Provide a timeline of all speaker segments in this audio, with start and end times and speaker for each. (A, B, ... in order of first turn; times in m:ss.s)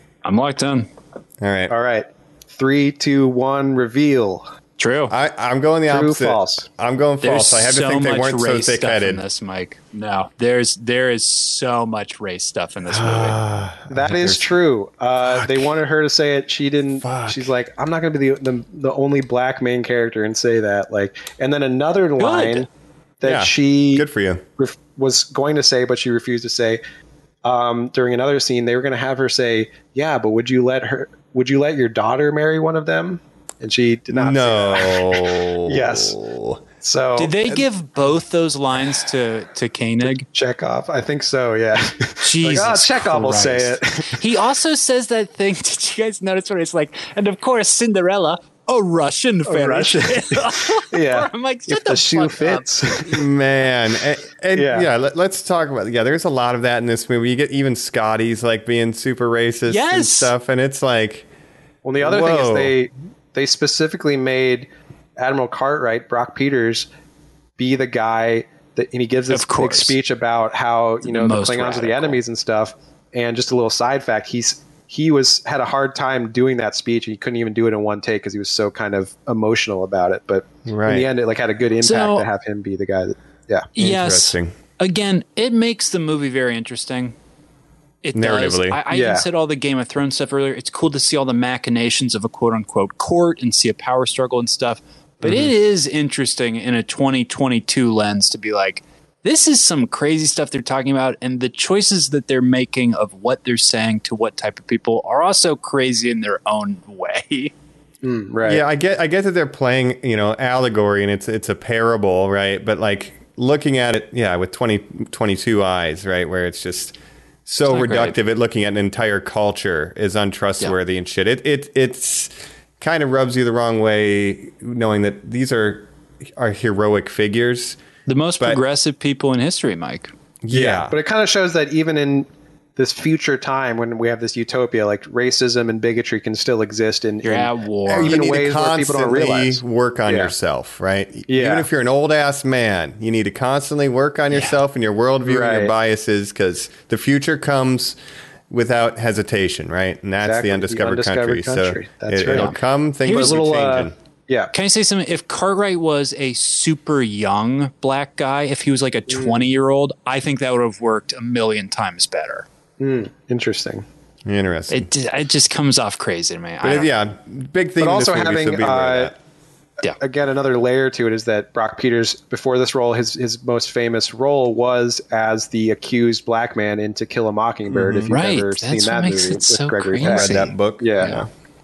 0:00.2-0:00.9 A
0:01.4-0:01.7 B
0:01.7-0:04.5 C
0:04.8-0:05.1 A
0:05.1-0:09.2 B
0:05.9-0:06.7 C
0:07.2-0:13.4 A
0:12.8-0:14.4 B
0:13.9-0:22.7 C
0:15.2-0:15.7 B
0:17.0-0:17.5 B
0:22.2-0:22.6 A
0:23.2-0:24.1 C
0:23.2-0:24.4 B
0:24.6-0:26.8 C
0:27.4-0:36.2 C
0:34.1-0:36.6 B
0:36.8-0:37.6 C
0:37.2-0:40.3 A
0:40.3-0:44.2 C
0:42.2-0:53.1 A
0:49.5-0:53.2 C
0:53.0-1:01.2 B
0:54.5-0:54.9 C
0:59.7-1:00.3 A
1:01.8-1:06.9 C
1:02.0-1:02.7 B
1:07.6-1:23.7 C
1:09.3-1:10.0 A
1:11.0-1:12.2 A
1:20.6-1:21.1 B
1:21.8-1:22.3 A
1:23.8-1:27.1 A
1:23.8-1:24.5 B
1:28.0-1:47.5 A
1:28.1-1:28.8 B
1:28.9-1:29.2 C
1:35.2-1:35.5 B
1:48.0-1:48.6 C
1:48.4-2:07.8 B
1:57.6-1:58.2 A
2:08.0-2:10.1 A
2:10.4-2:10.9 B
2:10.5-2:20.3 C
2:17.2-2:18.2 A
2:17.9-2:28.0 B
2:21.3-2:21.7 C
2:24.3-2:24.6 A
2:25.2-2:25.7 C
2:28.5-2:33.9 B
2:30.2-2:32.5 C
2:32.3-2:33.4 A
2:33.0-2:34.5 C
2:34.5-2:42.4 A
2:39.1-2:39.4 C
2:42.8-2:43.8 C
2:44.2-2:44.9 B
2:44.7-2:46.9 A
2:46.6-2:49.1 B
2:47.8-2:49.1 C
2:49.9-3:01.2 C
2:57.7-2:58.1 B
2:58.1-3:01.2 A
3:00.0-3:01.3 B